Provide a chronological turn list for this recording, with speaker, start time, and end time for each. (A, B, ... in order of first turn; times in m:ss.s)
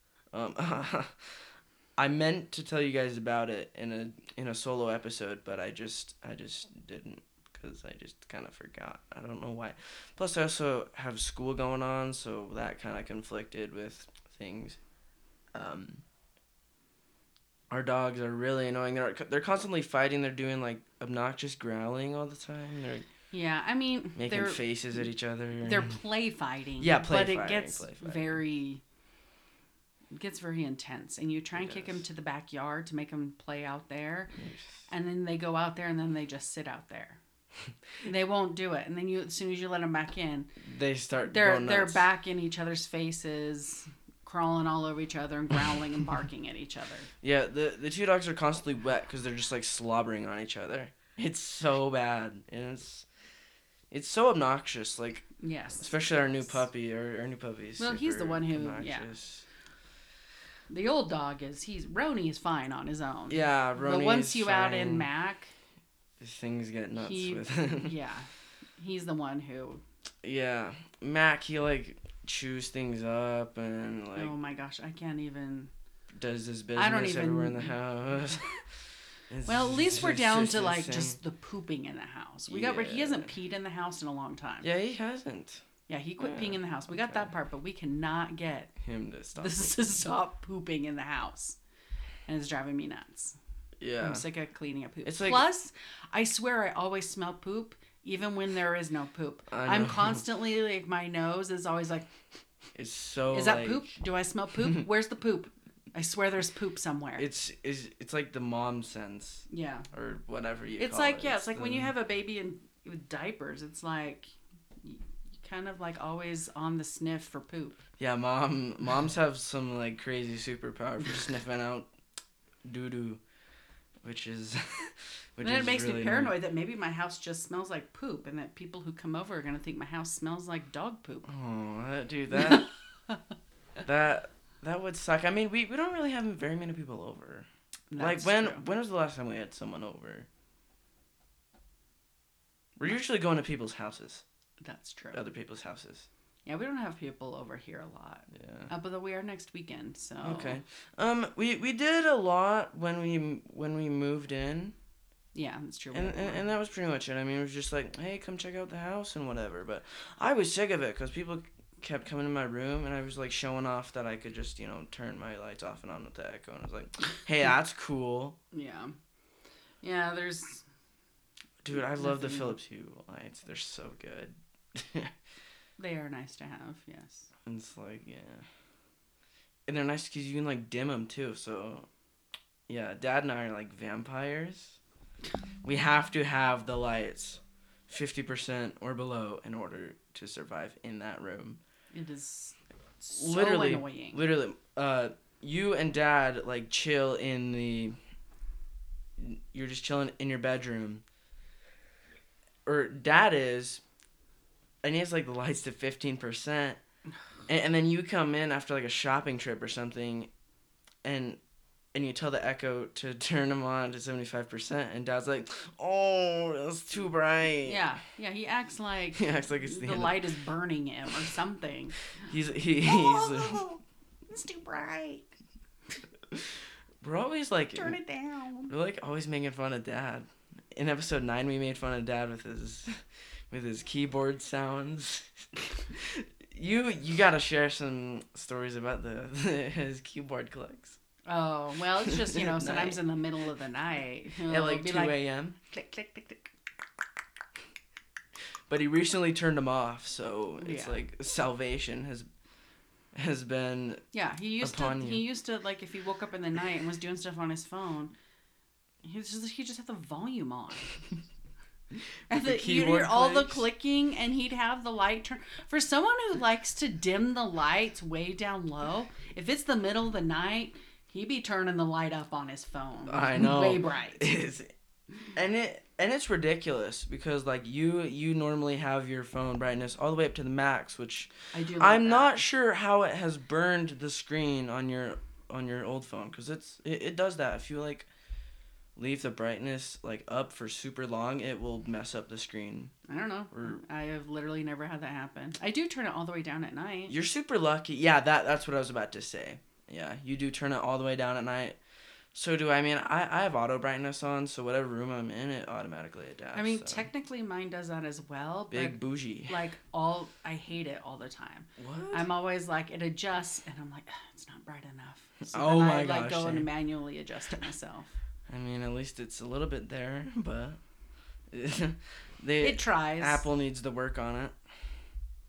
0:00.3-0:14.8 A
0:15.6-0:16.0 A
0:17.7-0:23.1 A
0:23.3-0:24.7 B
0:24.2-0:26.0 A
0:25.6-0:28.8 B
0:26.8-0:28.4 A
0:30.1-0:34.4 B
0:31.6-0:32.0 A
0:34.4-0:34.8 A
0:34.9-0:37.2 B
0:38.0-0:40.5 B
0:40.6-0:42.0 A
0:41.3-0:47.1 B
0:47.2-0:53.1 A
0:53.9-0:55.3 A
0:55.4-0:56.1 B
0:55.8-0:59.4 A
0:57.8-0:59.1 B
1:00.7-1:05.5 B
1:03.3-1:05.1 A
1:06.2-1:08.0 A
1:07.0-1:09.8 B
1:10.2-1:14.3 A
1:14.1-1:15.7 B
1:16.1-1:18.6 A
1:16.8-1:17.8 B
1:19.3-1:21.2 A
1:19.5-1:24.6 B
1:22.5-1:23.4 A
1:24.6-1:25.6 A
1:25.9-1:28.7 B
1:26.2-1:27.3 A
1:28.8-1:30.0 A
1:29.4-1:31.6 B
1:32.2-1:33.4 B
1:33.8-1:34.2 A
1:34.0-1:42.1 B
1:35.0-1:35.4 A
1:39.5-1:40.2 A
1:42.8-1:44.0 A
1:43.3-1:47.2 B
1:47.2-1:51.9 A
1:49.5-1:49.9 B
1:50.8-1:57.8 B
1:58.0-2:01.9 A
2:02.6-2:03.2 A
2:04.0-2:06.3 A
2:05.4-2:11.3 B
2:11.2-2:12.7 A
2:12.4-2:13.2 B
2:13.8-2:17.5 A
2:17.9-2:18.6 B
2:18.0-2:20.3 A
2:22.8-2:24.2 A
2:24.6-2:25.2 B
2:25.1-2:26.1 A
2:26.5-2:30.6 B
2:28.3-2:28.7 A
2:30.2-2:34.8 A
2:35.4-2:36.4 B
2:35.9-2:48.4 A
2:48.5-2:49.0 B
2:49.8-2:50.6 B
2:51.6-2:55.1 A
2:51.8-2:52.6 B
2:55.8-2:57.3 B
2:57.5-2:58.5 A
2:59.7-3:01.9 A
3:02.7-3:04.8 A
3:05.6-3:11.6 A
3:11.9-3:14.2 B
3:13.1-3:18.0 A
3:19.2-3:21.0 A
3:22.6-3:23.8 A
3:24.8-3:26.8 A
3:27.5-3:30.3 A
3:31.0-3:31.4 A
3:31.9-3:37.9 A
3:37.6-3:42.0 B
3:39.1-3:40.2 A
3:42.2-3:43.6 A
3:42.8-3:45.3 B
3:47.0-3:48.0 A
3:47.8-3:48.7 B
3:48.7-4:01.0 A
4:01.2-4:06.5 B
4:02.0-4:03.0 A
4:04.4-4:05.6 A
4:08.7-4:12.2 A
4:10.6-4:11.0 B
4:13.1-4:14.0 A
4:14.1-4:18.1 B
4:14.6-4:15.2 A
4:19.0-4:21.0 B
4:22.3-4:34.3 B
4:22.3-4:23.6 A
4:33.1-4:34.7 A
4:35.3-4:48.1 A
4:41.5-4:42.4 B
4:49.0-4:52.9 A
4:53.1-4:57.1 B
4:53.5-4:53.8 A
4:57.1-5:01.8 A
5:02.3-5:07.1 A
5:06.5-5:18.1 B
5:08.7-5:09.6 A
5:11.8-5:12.3 A
5:15.4-5:16.7 A
5:18.5-5:20.8 A
5:21.5-5:24.6 A
5:22.6-5:23.4 B